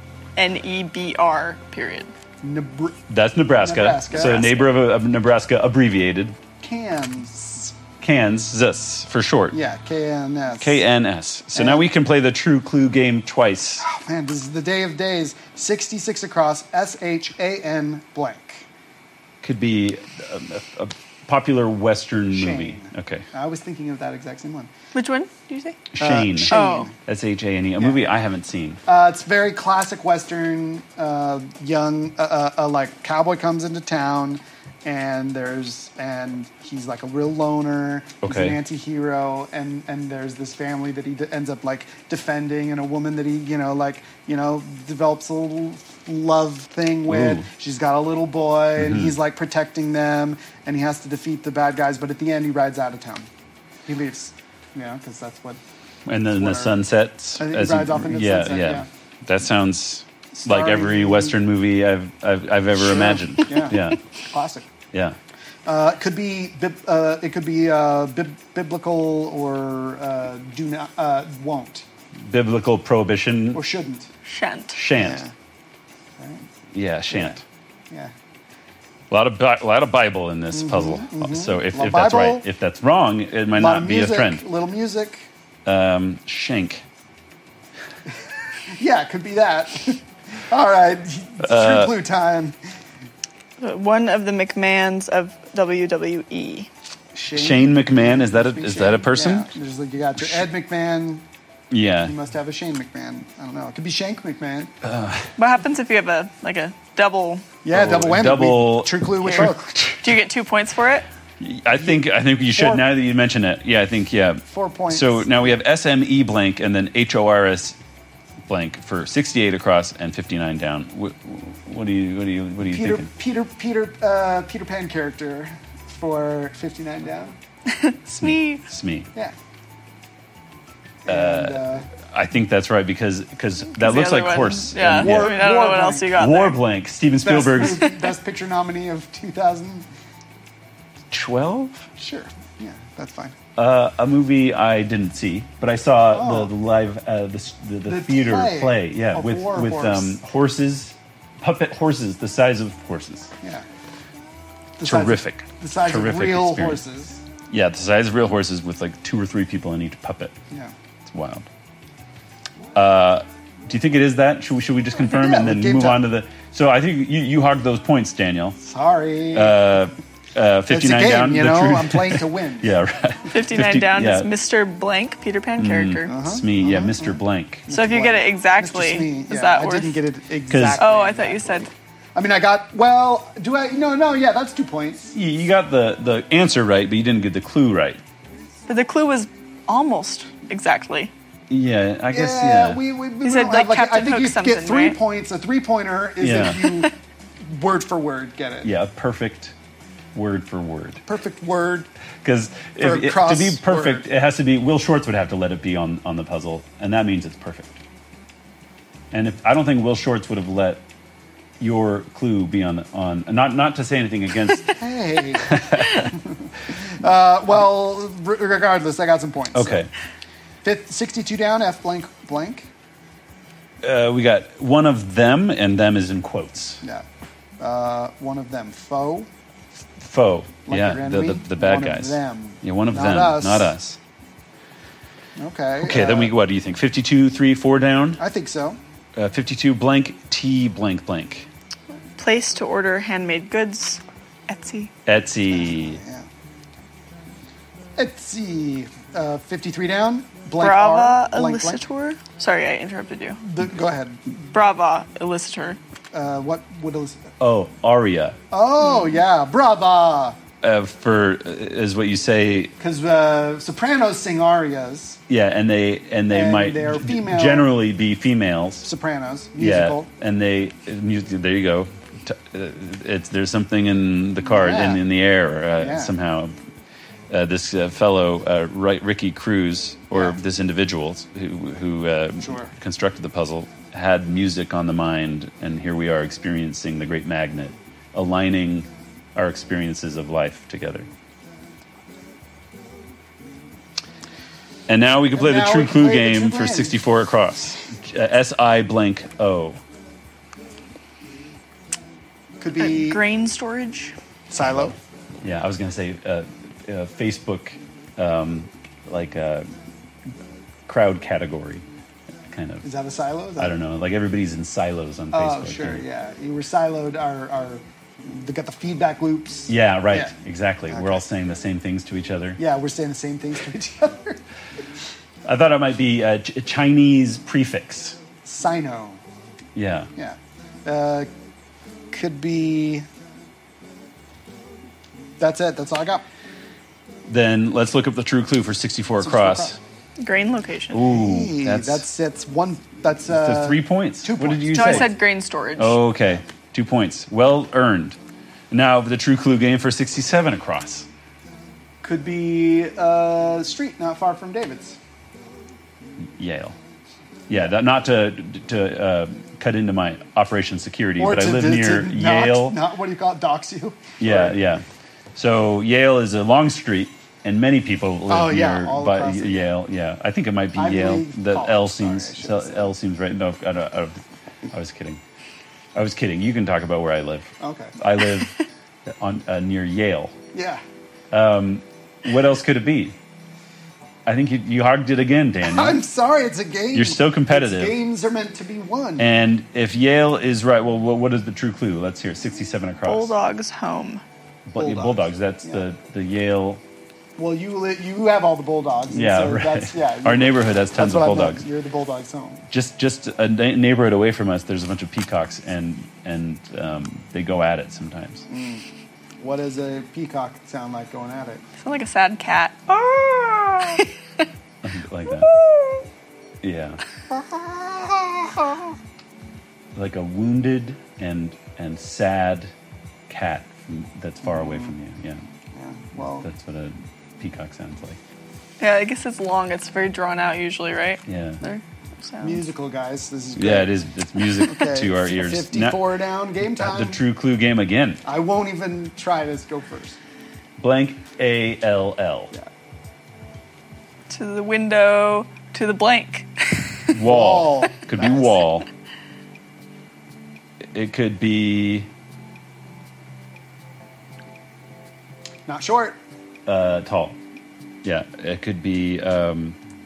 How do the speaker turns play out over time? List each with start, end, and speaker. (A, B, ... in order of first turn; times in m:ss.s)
0:00.4-0:02.1 A
0:02.4-0:03.0 B
0:03.1-0:06.4 C
0:03.6-0:04.6 B
0:06.6-0:07.8 B
0:08.0-0:09.6 C
0:09.5-0:10.8 B
0:10.6-0:13.8 C
0:11.5-0:11.9 B
0:13.8-0:18.7 B
0:19.4-0:23.2 C
0:22.3-0:24.7 B
0:24.9-0:25.9 A
0:25.9-0:28.8 C
0:26.0-0:27.0 B
0:26.4-0:26.9 A
0:28.9-0:53.3 B
0:38.2-0:38.6 C
0:47.1-0:47.5 C
0:48.8-0:49.2 C
0:53.9-0:55.6 B
0:56.1-1:04.0 C
0:56.2-0:56.8 B
0:57.4-0:58.9 B
1:00.3-1:01.4 B
1:02.8-1:04.7 B
1:05.7-1:11.8 B
1:12.2-1:13.6 C
1:13.5-1:14.1 B
1:14.2-1:14.8 A
1:14.7-1:15.2 C
1:14.9-1:15.3 B
1:16.2-1:16.5 B
1:16.7-1:17.4 C
1:17.1-1:17.4 B
1:19.1-1:24.4 C
1:20.5-1:22.4 B
1:23.5-1:25.3 B
1:25.6-1:26.8 C
1:28.7-1:32.6 B
1:31.4-1:31.9 C
1:33.6-1:36.7 A
1:37.1-1:41.2 B
1:37.4-1:39.5 C
1:40.2-1:40.5 C
1:41.7-1:42.1 C
1:42.0-1:44.7 B
1:44.8-1:45.3 C
1:45.4-1:47.4 A
1:47.6-1:49.7 B
1:47.7-1:50.0 C
1:49.2-1:51.1 A
1:51.4-1:57.8 C
1:52.5-1:52.9 B
1:54.5-1:55.4 B
1:58.5-2:03.1 C
2:02.6-2:07.4 B
2:07.7-2:08.6 A
2:08.1-2:09.1 C
2:11.0-2:11.9 B
2:11.1-2:15.5 C
2:13.8-2:16.6 A
2:14.9-2:16.1 B
2:16.1-2:17.8 C
2:17.2-2:19.9 B
2:21.1-2:21.9 C
2:22.0-2:23.4 B
2:23.6-2:33.3 C
2:26.1-2:26.5 B
2:27.8-2:30.2 B
2:34.8-2:37.2 B
2:34.8-2:36.8 C
2:37.5-2:40.4 C
2:41.0-2:41.5 C
2:42.7-2:48.6 C
2:45.0-2:46.0 B
2:48.6-2:49.8 B
2:49.3-2:54.3 C
2:50.7-2:52.8 B
2:53.3-2:56.1 A
2:55.6-2:57.7 C
2:56.1-3:05.1 B
2:57.7-3:00.0 A
3:00.5-3:00.8 C
3:00.8-3:01.7 A
3:05.1-3:08.0 C
3:08.7-3:11.1 A
3:11.5-3:12.8 C
3:12.1-3:18.7 B
3:13.2-3:15.0 A
3:16.2-3:16.8 C
3:18.6-3:19.5 C
3:20.1-3:21.0 C
3:21.1-3:21.9 B
3:22.2-3:27.8 C
3:22.8-3:24.1 B
3:29.1-3:30.8 C
3:31.6-3:34.8 C
3:34.8-3:39.9 B
3:35.5-3:36.1 C
3:39.5-3:39.9 C
3:40.6-3:42.7 B
3:43.8-3:46.8 C
3:47.6-3:49.3 B
3:50.0-3:54.0 C
3:50.7-3:53.8 B
3:55.4-3:56.3 B
3:55.8-3:58.2 C
3:58.2-3:58.8 B
3:59.2-4:01.5 C
4:02.2-4:04.9 A
4:05.1-4:06.0 C
4:05.5-4:06.3 B
4:08.0-4:11.8 B
4:10.6-4:13.4 A
4:13.4-4:14.2 B
4:14.5-4:15.8 A
4:16.1-4:17.2 B
4:17.4-4:18.4 C
4:18.5-4:20.4 B
4:20.6-4:22.7 C
4:22.8-4:25.2 B
4:25.3-4:28.9 C
4:26.3-4:27.7 B
4:28.8-4:30.1 B
4:29.6-4:36.6 C
4:34.4-4:35.1 B
4:35.8-4:36.1 B
4:37.3-4:51.1 C
4:40.1-4:40.4 B
4:42.4-4:42.7 B
4:54.9-4:59.8 C
4:55.3-4:57.0 B
5:02.6-5:03.2 B
5:02.8-5:04.2 A
5:04.5-5:05.0 B
5:04.6-5:09.7 C
5:10.9-5:11.8 C
5:12.5-5:12.9 C
5:12.8-5:13.8 B
5:13.6-5:16.0 C
5:15.3-5:20.3 B
5:19.7-5:22.6 C
5:20.9-5:21.2 B
5:22.6-5:24.4 B
5:25.4-5:28.2 C
5:28.4-5:29.2 B
5:29.8-5:30.1 C
5:30.2-5:31.3 B
5:32.1-5:33.1 B
5:35.4-5:36.3 B
5:37.3-5:39.8 C
5:39.2-5:39.8 B
5:40.2-5:41.0 A
5:40.9-5:42.0 C
5:41.1-5:45.1 B
5:43.3-5:45.2 C
5:44.7-5:46.0 A
5:45.8-5:48.2 C
5:48.7-5:51.1 C
5:52.0-5:55.0 B
5:56.2-5:56.8 C
5:57.5-6:02.8 C
6:01.2-6:04.6 B
6:04.2-6:04.8 C
6:05.4-6:15.2 C
6:08.3-6:09.7 B
6:10.8-6:12.9 B
6:16.0-6:20.3 C
6:17.6-6:18.0 B
6:20.5-6:20.8 B
6:21.3-6:23.2 C
6:24.3-6:26.0 C
6:25.6-6:29.3 B
6:26.9-6:28.0 C
6:29.2-6:33.3 C
6:33.1-6:34.2 A
6:34.7-6:36.8 C
6:34.8-6:35.8 B
6:37.4-6:42.6 B
6:39.1-6:41.6 C
6:42.7-6:48.5 C
6:48.5-6:48.8 B
6:49.4-6:51.6 B
6:51.8-6:54.1 A
6:54.8-6:55.5 C
6:55.4-6:56.0 A
6:56.6-6:57.0 C
6:57.3-6:58.9 B
7:00.0-7:02.7 C
7:03.3-7:05.4 C
7:04.4-7:04.9 B
7:05.7-7:06.5 B
7:06.2-7:08.2 C
7:08.8-7:12.6 A
7:11.3-7:11.6 C
7:12.4-7:13.9 B
7:13.6-7:16.0 C
7:14.6-7:17.2 B
7:16.7-7:18.2 C
7:18.2-7:20.2 B
7:20.8-7:22.5 C
7:24.3-7:27.1 A
7:27.1-7:28.9 C
7:27.2-7:28.6 B
7:30.9-7:32.1 C
7:35.7-7:36.2 B
7:36.7-7:37.4 C
7:38.0-7:39.8 C